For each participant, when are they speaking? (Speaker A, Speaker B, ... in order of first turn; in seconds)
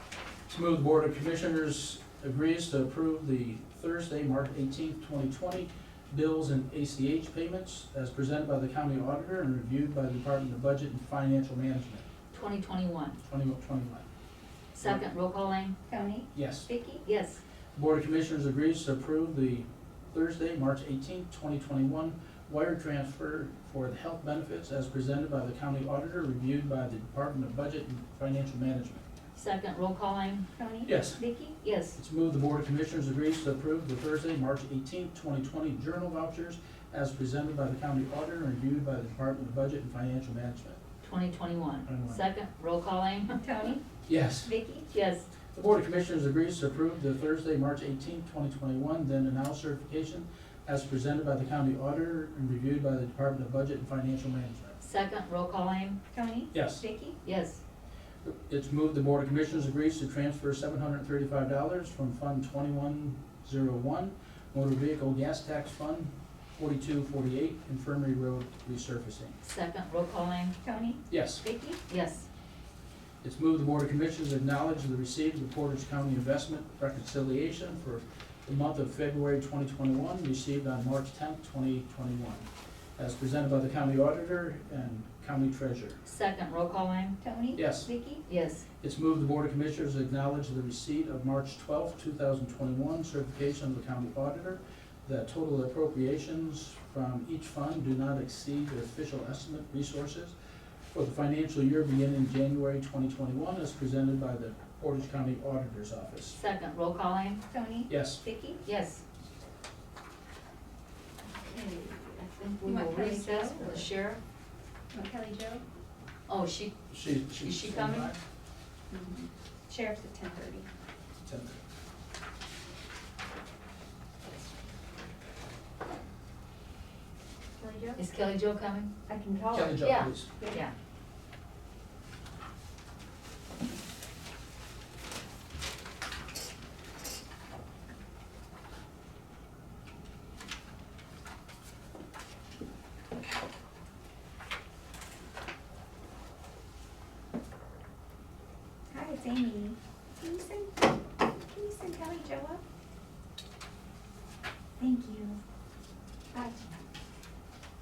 Speaker A: 0.5-12.0, 13.2-14.1, 14.8-15.1, 16.3-16.7, 17.8-29.0, 30.8-31.2, 31.9-40.8, 41.9-42.2, 44.1-44.5, 45.5-54.8, 56.5-56.8, 58.2-69.3, 71.1-71.4, 73.2-82.5, 83.0-86.0, 87.5-87.9, 88.8-100.3, 100.9-106.4, 107.9-108.2, 116.9-118.2, 121.2-121.6, 129.5-130.3
Speaker B: 12.3-13.2, 14.7-15.8, 17.0-17.4, 29.4-30.5, 31.6-32.0, 41.0-43.4, 44.9-45.3, 54.8-56.0, 57.2-57.6, 69.4-70.5, 71.9-72.3, 86.0-87.2, 88.3-88.7, 106.3-107.4, 108.6-109.0, 111.5-114.2, 116.3-118.1, 128.0-128.9, 129.8-130.7
Speaker C: 15.9-17.0, 30.6-31.6, 43.4-43.8, 44.4-44.9, 56.1-57.2, 70.6-71.8, 87.2-88.2, 107.5-108.6, 112.6-113.9, 114.9-115.6, 118.9-120.7, 127.6-128.0, 129.1-130.6, 148.9-152.6, 154.8-155.4, 156.3-156.7